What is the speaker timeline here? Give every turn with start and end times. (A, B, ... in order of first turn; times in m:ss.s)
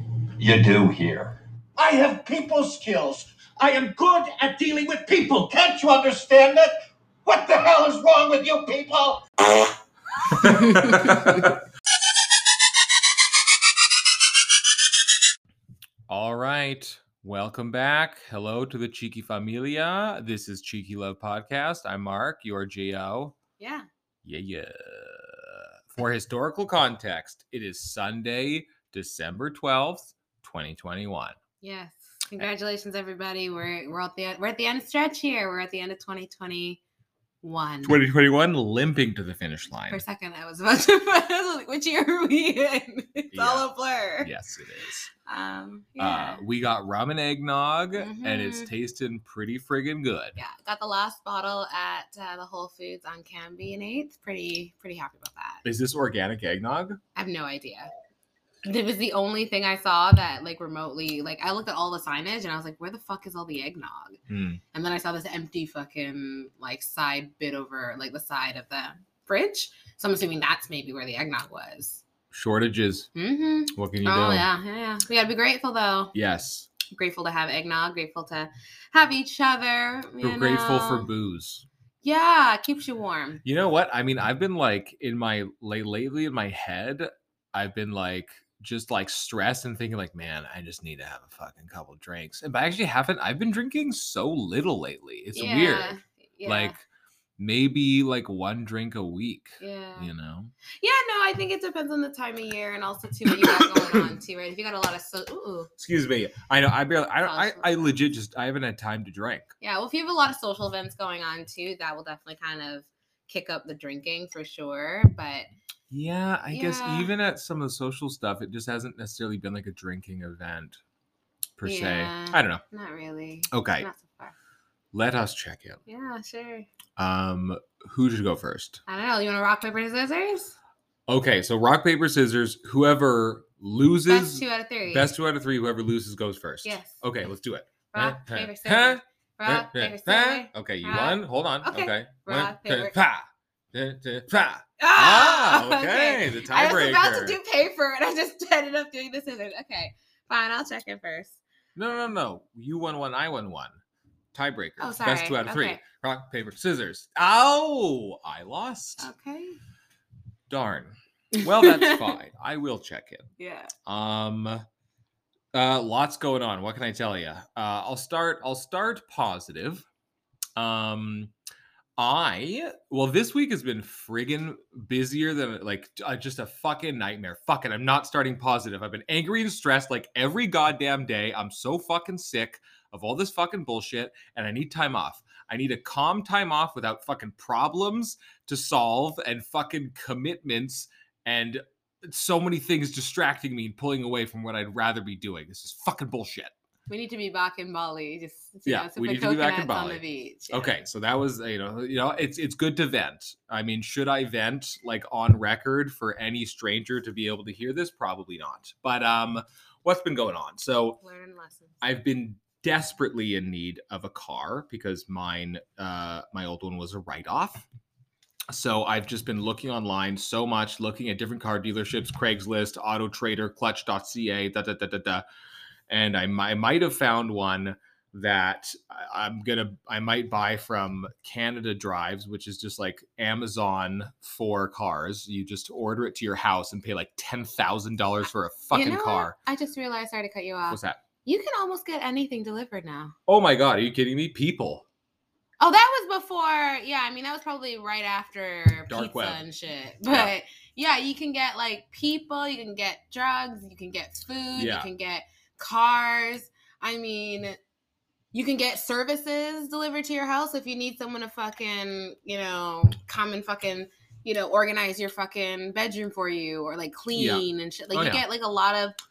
0:00.4-0:06.7 A
0:07.2-0:09.3 A
0:10.4-0:11.5 B
0:10.4-0:11.4 A
0:16.1-0:23.4 B
0:23.6-0:23.9 C
0:24.2-0:31.4 B
0:31.6-0:36.8 C
0:37.4-0:38.0 C
0:37.8-0:40.0 B
0:39.9-0:44.3 C
0:43.3-0:43.7 B
0:44.2-0:45.1 B
0:45.2-0:46.4 C
0:46.0-0:50.4 B
0:47.9-0:48.7 C
0:50.4-0:55.6 C
0:55.6-0:57.0 B
0:57.1-0:57.9 C
0:58.6-1:04.2 C
1:04.3-1:04.6 B
1:04.7-1:12.0 C
1:12.3-1:13.1 B
1:13.2-1:16.1 C
1:13.7-1:14.5 B
1:16.1-1:16.7 B
1:16.9-1:21.1 C
1:20.2-1:21.6 B
1:22.0-1:23.4 C
1:23.4-1:36.8 B
1:35.3-1:36.8 C
1:37.4-1:40.5 B
1:39.6-1:40.1 C
1:40.8-1:45.7 C
1:43.3-1:44.1 B
1:45.8-1:49.5 B
1:47.2-1:48.0 C
1:49.6-1:55.5 C
1:55.9-2:00.8 B
1:56.5-1:57.1 C
2:01.6-2:02.6 B
2:01.6-2:04.3 C
2:03.5-2:03.9 B
2:04.9-2:05.8 B
2:05.9-2:06.7 C
2:07.0-2:08.8 B
2:08.9-2:10.5 C
2:11.1-2:27.4 B
2:14.1-2:15.1 C
2:16.6-2:17.0 C
2:17.9-2:22.9 C
2:24.8-2:31.4 C
2:31.8-2:33.8 B
2:34.3-2:39.1 B
2:34.8-2:35.8 C
2:39.0-2:39.6 C
2:40.5-2:43.3 B
2:41.3-2:42.1 C
2:43.4-2:43.7 C
2:43.8-2:44.6 B
2:45.5-2:49.8 B
2:50.6-2:51.3 B
2:52.0-3:16.5 B
3:16.9-3:20.7 C
3:18.6-3:31.0 B
3:31.0-3:31.8 C
3:31.8-3:37.6 B
3:38.5-3:45.2 B
3:45.9-3:59.3 B
3:58.7-4:03.1 C
4:00.7-4:01.0 B
4:03.3-4:04.8 B
4:05.6-4:17.6 C
4:08.9-4:09.4 B
4:14.5-4:14.9 B
4:18.3-4:29.0 C
4:27.1-4:28.2 B